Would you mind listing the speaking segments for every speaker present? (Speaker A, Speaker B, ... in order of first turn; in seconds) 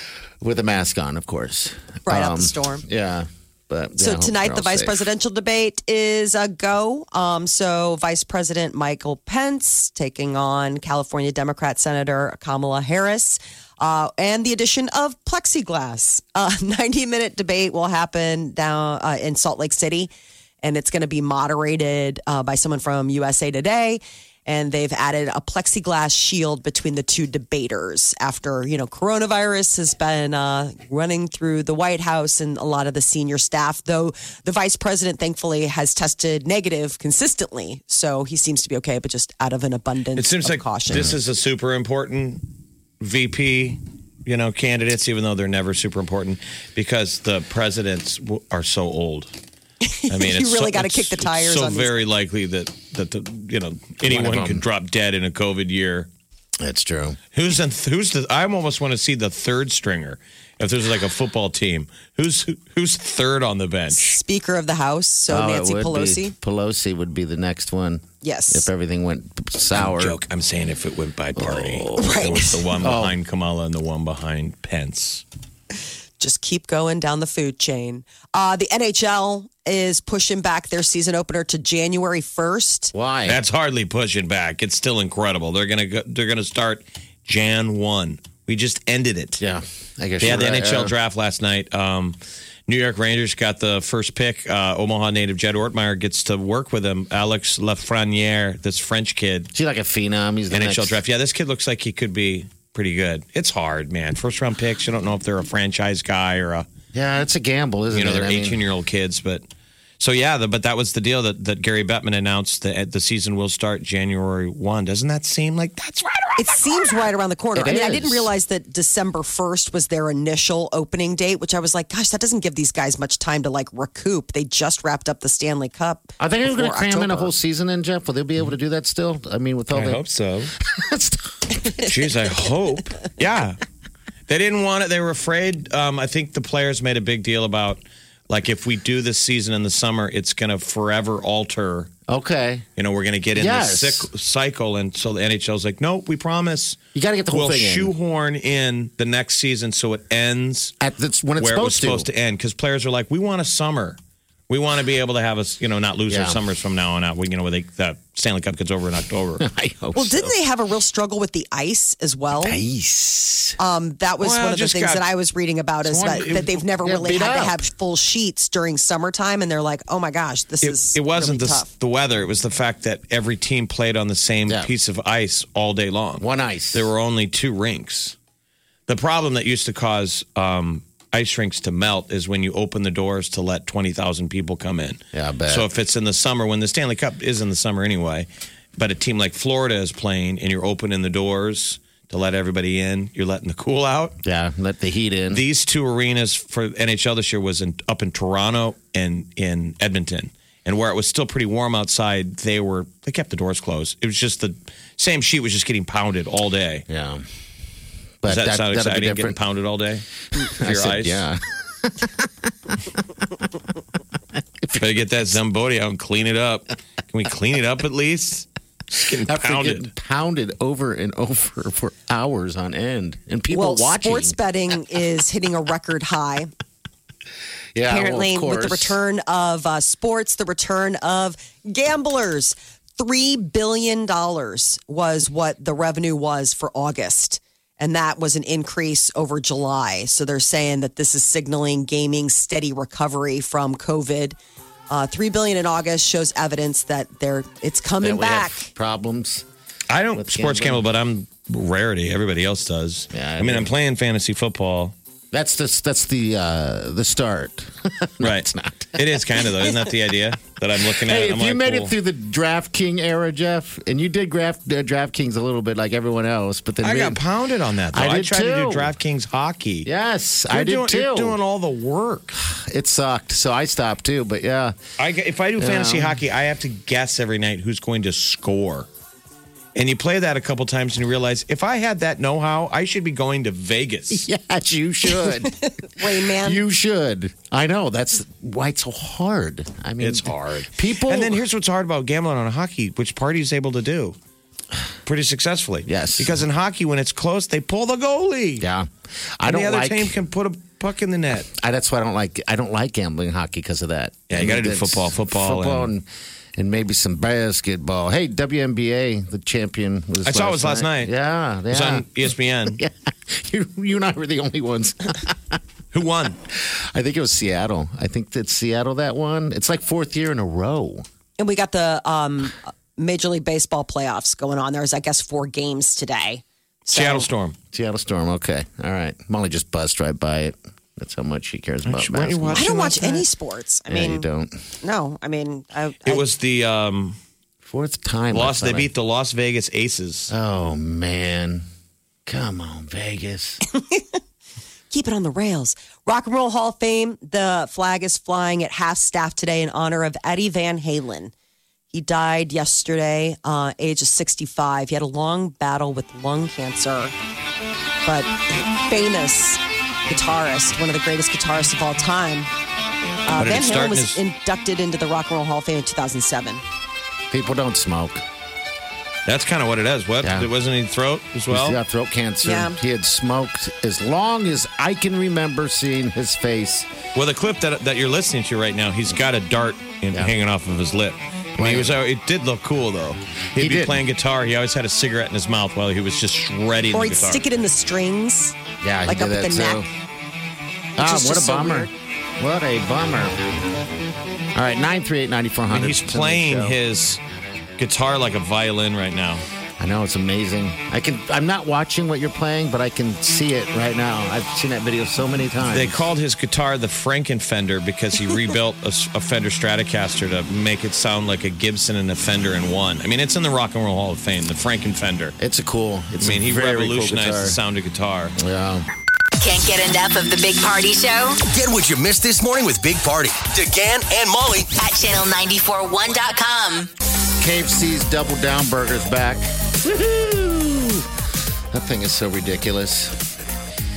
Speaker A: 0.4-5.0, 54.0-54.6, 56.6-57.2, 65.3-70.2, 71.4-73.2, 82.9-83.4, 89.4-90.9, 99.5-101.0, 106.9-108.6, 117.5-118.3, 126.2-130.0, 130.7-131.9, 142.1-142.7, 143.4-144.1, 146.9-147.9, 150.8-152.1, 156.1-156.4, 159.4-160.3, 162.4-163.6, 165.8-167.6, 176.2-176.9, 185.1-185.7, 194.2-195.4, 206.9-207.2, 208.2-209.4, 210.4-213.0, 214.6-215.0, 219.0-224.4, 227.7-229.0, 248.0-249.4, 250.1-250.8, 253.1-253.7, 255.3-259.2, 260.9-267.2, 267.9-268.9, 269.9-271.4, 272.4-274.8, 275.6-276.2, 284.1-291.4, 295.9-296.4, 298.6-300.1, 301.4-315.6, 316.5-321.0, 327.7-332.7, 333.9-334.6, 337.6-338.9, 340.3-341.6, 342.2-343.6, 367.3-368.2, 370.2-370.5, 371.5-376.9, 381.6-381.9, 383.6-384.0, 388.8-389.9, 391.0-393.4, 394.5-396.8, 399.8-406.0, 415.4-417.6, 418.4-418.9, 427.4-431.1, 431.7-433.3
Speaker B: 2.0-2.9, 4.0-20.1, 20.6-41.1, 49.8-52.0, 63.9-66.3, 68.2-68.7, 72.0-72.6, 76.2-82.9, 116.4-127.3, 159.9-162.6, 163.6-171.7, 223.5-226.5, 227.9-244.4, 244.9-248.7, 285.2-286.6, 321.4-327.3, 332.5-334.2, 334.8-336.2, 343.7-344.0, 344.9-351.3, 351.9-357.1, 358.0-362.5, 363.3-366.6, 372.4-372.8, 386.9-388.5, 389.1-389.8, 391.0-391.9
Speaker C: 40.1-42.5, 43.0-49.3, 50.1-56.1, 57.3-64.2, 69.7-75.2, 83.3-89.4, 90.2-99.5, 100.5-106.7, 107.9-109.4, 110.0-117.0, 129.7-130.5, 131.8-133.6, 134.3-141.9, 142.8-150.7, 151.4-159.4, 164.2-165.1, 166.0-166.5, 170.6-178.1, 178.9-194.1, 195.3-206.9, 208.2-211.2, 214.8-219.9, 249.9-254.9, 258.2-261.9, 266.8-269.9, 270.5-272.4, 275.0-278.9, 279.7-284.2, 290.0-294.1, 295.1-298.6, 299.4-301.5, 304.3-305.9, 310.2-311.1, 311.7-312.8, 315.9-316.4, 326.9-327.6, 331.9-333.2, 336.0-337.2, 338.3-340.3, 363.4-364.2, 369.2-371.8, 377.1-387.4, 395.7-397.2, 397.8-399.4, 405.7-415.4, 416.2-418.3
Speaker D: 419.4-421.4, 424.8-426.9
Speaker E: 421.6-424.6